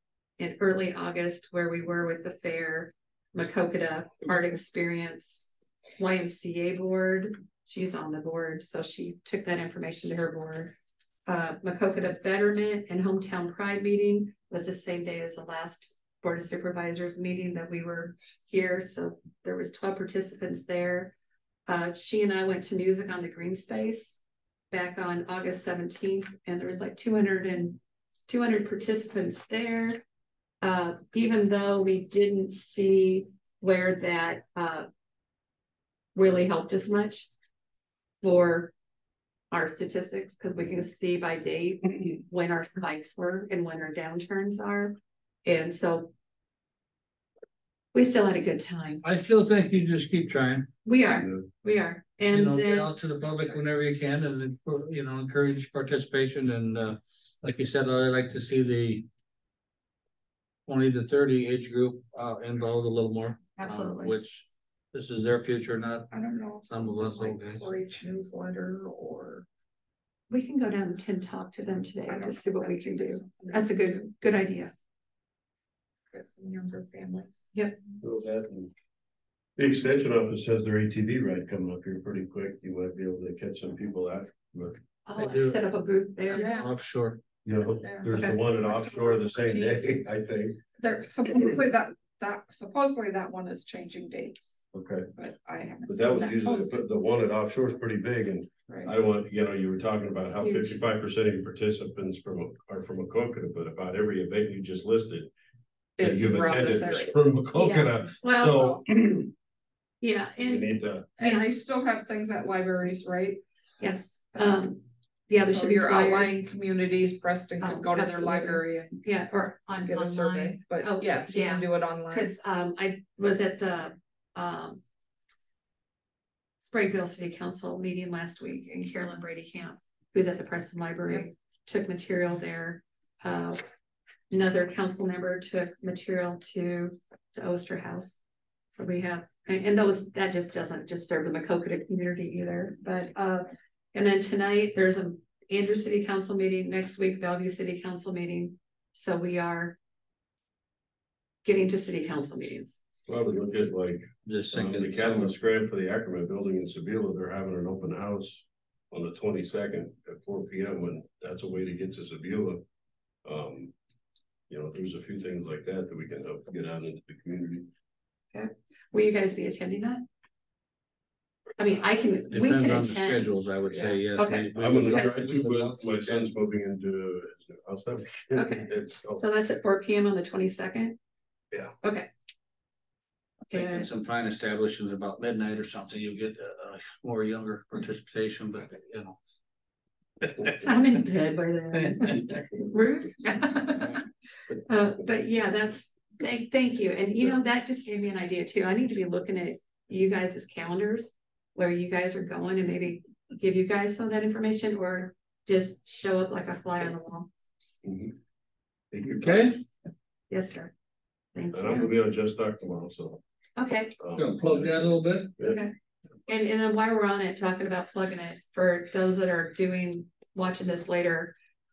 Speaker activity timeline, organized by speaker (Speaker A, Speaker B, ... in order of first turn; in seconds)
Speaker A: 0.4-10.7, 11.3-21.1, 21.7-24.2, 24.7-30.0, 30.6-34.9, 36.1-37.3, 38.2-38.7, 39.5-46.1, 47.9-49.0, 50.9-52.9, 63.6-64.1, 70.3-74.7, 85.1-86.7, 88.1-88.4, 100.3-100.8, 107.5-108.8, 110.0-110.7, 113.8-116.4, 117.6-124.8, 126.6-133.6, 134.3-138.2, 138.7-149.8, 151.4-152.8, 168.3-170.1, 171.6-175.1, 178.3-181.0, 181.8-182.1, 183.5-183.9, 190.6-194.0, 194.7-207.3, 210.3-210.7, 211.3-212.0, 213.6-213.9, 215.4-215.7, 216.3-221.3
Speaker B: 49.0-50.7, 52.3-59.1, 60.7-66.1, 66.7-67.6, 85.2-85.6, 86.5-87.2, 154.2-155.3, 172.3-176.3, 183.5-189.2, 191.7-192.3, 209.2-209.6, 214.2-215.4
Speaker C: 51.1-51.5, 78.0-78.7, 79.6-84.8, 87.5-90.6, 94.7-95.1, 95.9-105.3, 106.0-109.3, 110.4-111.1, 153.1-162.6, 163.2-163.7, 164.5-167.7, 174.5-179.2, 207.8-208.2, 208.9-209.6, 211.5-213.2, 214.0-215.6
Speaker D: 66.1-69.5, 72.1-74.1, 76.1-77.5, 86.3-86.6, 87.8-88.3, 88.9-89.8, 90.8-94.4, 95.2-96.8, 106.0-107.2, 111.2-113.4, 115.4-119.0, 119.8-122.3